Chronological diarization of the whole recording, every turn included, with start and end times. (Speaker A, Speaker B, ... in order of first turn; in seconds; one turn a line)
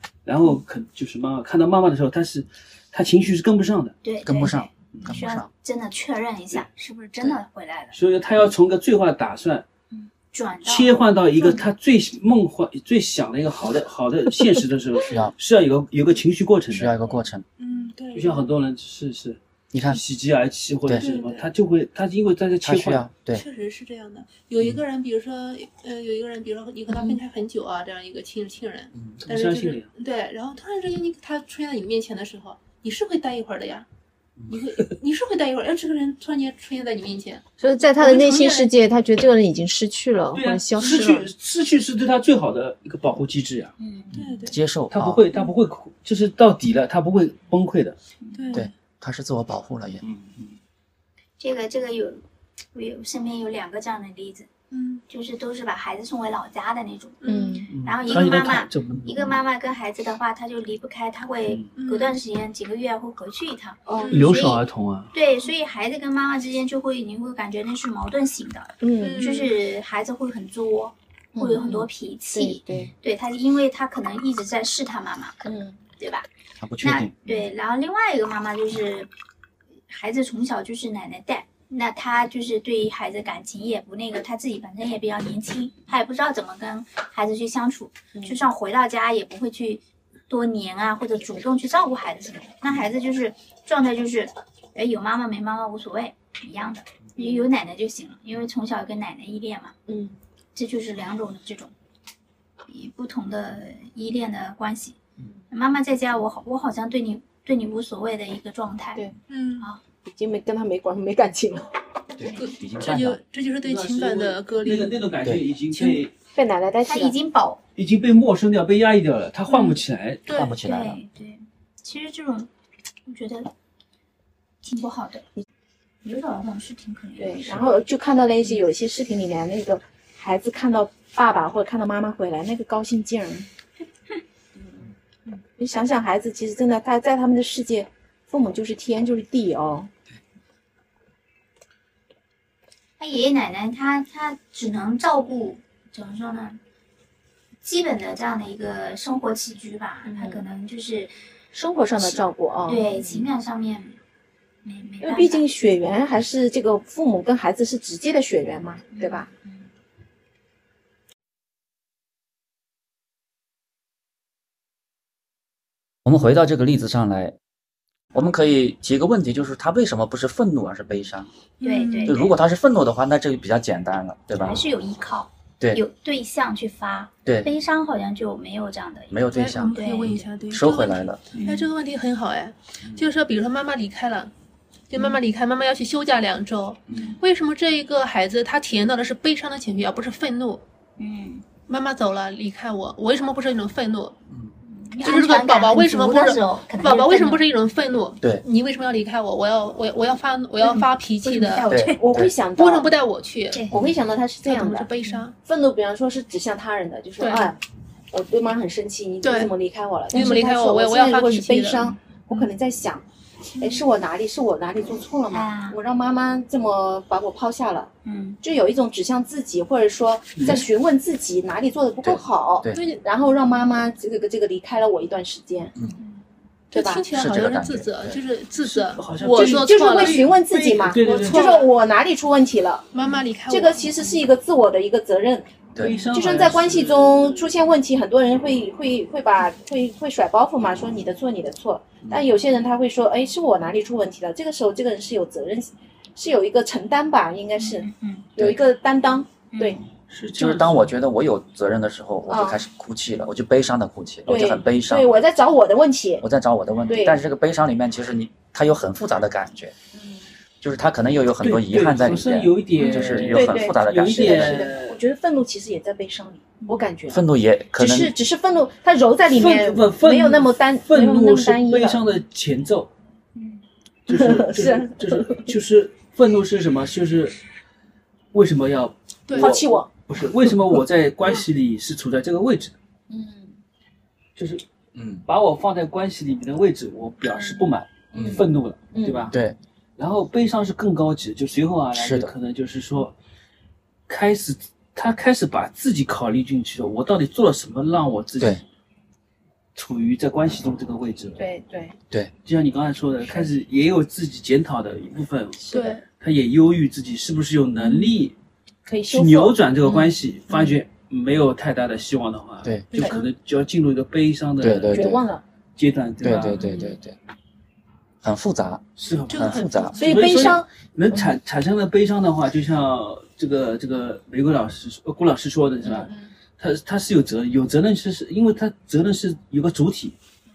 Speaker A: 0.2-4.0
Speaker B: 4.0-8.0
Speaker C: 4.2-5.5
Speaker A: 4.9-5.2
Speaker A: 7.9-9.7
Speaker B: 9.9-11.0
Speaker A: 10.6-17.0
Speaker C: 15.1-15.3
Speaker C: 16.7-17.4
Speaker D: 17.6-18.5
Speaker A: 18.1-23.1
Speaker C: 19.7-20.0
Speaker D: 21.0-21.5
Speaker C: 22.6-23.4
Speaker D: 23.3-33.9
Speaker B: 26.9-27.2
Speaker A: 29.2-29.9
Speaker D: 34.5-38.7
Speaker E: 37.6-41.3
Speaker A: 40.3-43.8
Speaker B: 43.8-44.2
Speaker C: 44.1-45.2
Speaker D: 44.2-44.6
Speaker A: 44.9-48.0
Speaker B: 48.2-48.6
Speaker D: 48.4-48.7
Speaker C: 48.5-50.0
Speaker A: 50.0-50.4
Speaker B: 51.4-54.5
Speaker D: 54.7-55.0
Speaker B: 55.1-75.4
Speaker D: 57.2-58.3
Speaker E: 57.2-57.7
Speaker A: 57.7-59.4
Speaker A: 61.5-61.7
Speaker D: 61.8-62.2
Speaker E: 63.9-64.3
Speaker D: 64.0-64.4
Speaker A: 64.1-65.1
Speaker E: 68.8-69.3
Speaker D: 69.0-69.5
Speaker E: 71.4-72.9
Speaker E: 75.4-75.8
Speaker B: 76.0-76.3
Speaker C: 76.6-77.2
Speaker B: 76.8-79.1
Speaker B: 79.9-99.8
Speaker E: 88.2-88.5
Speaker E: 97.2-97.5
Speaker E: 99.9-100.2
Speaker B: 100.5-101.7
Speaker B: 102.7-105.0
Speaker B: 105.5-109.8
Speaker D: 109.3-109.7
Speaker E: 110.0-111.7
Speaker C: 112.2-113.2
Speaker D: 112.4-115.2
Speaker A: 113.7-116.1
Speaker D: 115.7-116.0
Speaker E: 116.3-117.2
Speaker B: 116.8-117.6
Speaker A: 117.8-120.3
Speaker D: 120.3-120.6
Speaker C: 120.3-121.0
Speaker B: 120.6-122.5
Speaker B: 123.1-123.5
Speaker B: 124.6-125.3
Speaker B: 126.0-127.7
Speaker E: 127.2-133.5
Speaker E: 134.6-134.9
Speaker E: 135.6-139.9
Speaker B: 143.0-146.6
Speaker B: 147.6-151.1
Speaker E: 150.1-150.4
Speaker E: 151.5-153.2
Speaker B: 152.0-154.0
Speaker B: 154.7-155.4
Speaker E: 155.0-159.3
Speaker B: 158.9-159.7
Speaker C: 166.1-167.4
Speaker C: 168.1-171.3
Speaker D: 171.6-172.2
Speaker B: 171.6-172.3
Speaker C: 172.1-174.6
Speaker B: 174.4-180.3
Speaker C: 179.1-179.8
Speaker D: 179.3-184.3
Speaker C: 180.5-181.2
Speaker B: 181.3-181.7
Speaker D: 184.9-190.6
Speaker C: 186.9-187.1
Speaker B: 186.9-187.2
Speaker B: 191.0-191.4
Speaker D: 191.7-194.2
Speaker B: 194.6-197.4
Speaker D: 195.0-201.7
Speaker B: 200.6-202.2
Speaker C: 201.7-202.3
Speaker E: 201.8-202.9
Speaker D: 202.6-203.6
Speaker B: 203.5-203.8
Speaker C: 203.7-204.0
Speaker E: 203.7-204.9
Speaker D: 204.4-205.4
Speaker E: 205.4-213.1
Speaker D: 207.2-207.6
Speaker D: 209.2-209.5
Speaker D: 210.1-211.9
Speaker B: 210.2-210.4
Speaker D: 213.6-213.8
Speaker E: 213.6-217.9
Speaker B: 215.3-215.8
Speaker B: 218.0-218.4
Speaker E: 218.4-225.7
Speaker A: 220.3-220.7
Speaker C: 222.0-222.8
Speaker D: 226.7-230.3
Speaker E: 226.7-227.1
Speaker C: 227.1-228.2
Speaker A: 228.6-231.6
Speaker E: 229.3-232.9
Speaker D: 231.0-231.7
Speaker D: 232.9-233.9
Speaker E: 233.5-249.8
Speaker A: 235.8-237.4
Speaker B: 247.6-248.3
Speaker B: 249.5-249.8
Speaker A: 250.0-250.9
Speaker C: 250.4-255.2
Speaker E: 252.3-252.6
Speaker E: 254.3-256.2
Speaker C: 256.2-259.7
Speaker E: 256.9-257.2
Speaker E: 259.9-260.3
Speaker C: 260.6-264.7
Speaker A: 261.4-265.0
Speaker B: 262.8-263.1
Speaker E: 263.1-267.2
Speaker C: 267.1-268.1
Speaker E: 267.8-272.0
Speaker A: 269.3-272.9
Speaker B: 273.4-273.6
Speaker A: 274.1-277.4
Speaker E: 274.1-275.5
Speaker A: 278.3-282.8
Speaker D: 279.3-279.6
Speaker E: 279.4-279.9
Speaker E: 283.1-283.6
Speaker A: 284.4-284.6
Speaker C: 284.9-285.2
Speaker A: 285.3-289.4
Speaker E: 288.1-289.4
Speaker C: 288.2-288.4
Speaker C: 289.3-289.6
Speaker A: 290.0-293.1
Speaker C: 291.9-292.3
Speaker A: 294.1-298.6
Speaker A: 299.8-301.4
Speaker E: 301.4-302.0
Speaker A: 302.4-308.4
Speaker E: 305.7-306.0
Speaker D: 305.7-306.0
Speaker E: 308.9-309.6
Speaker A: 309.1-315.2
Speaker B: 309.9-310.1
Speaker E: 310.5-310.8
Speaker C: 312.6-313.1
Speaker E: 313.0-313.3
Speaker C: 314.6-315.3
Speaker E: 314.9-315.4
Speaker A: 315.8-316.8
Speaker C: 316.2-317.2
Speaker E: 316.6-316.9
Speaker C: 318.2-320.0
Speaker A: 319.0-330.2
Speaker D: 319.3-320.3
Speaker E: 320.0-321.3
Speaker E: 325.8-326.3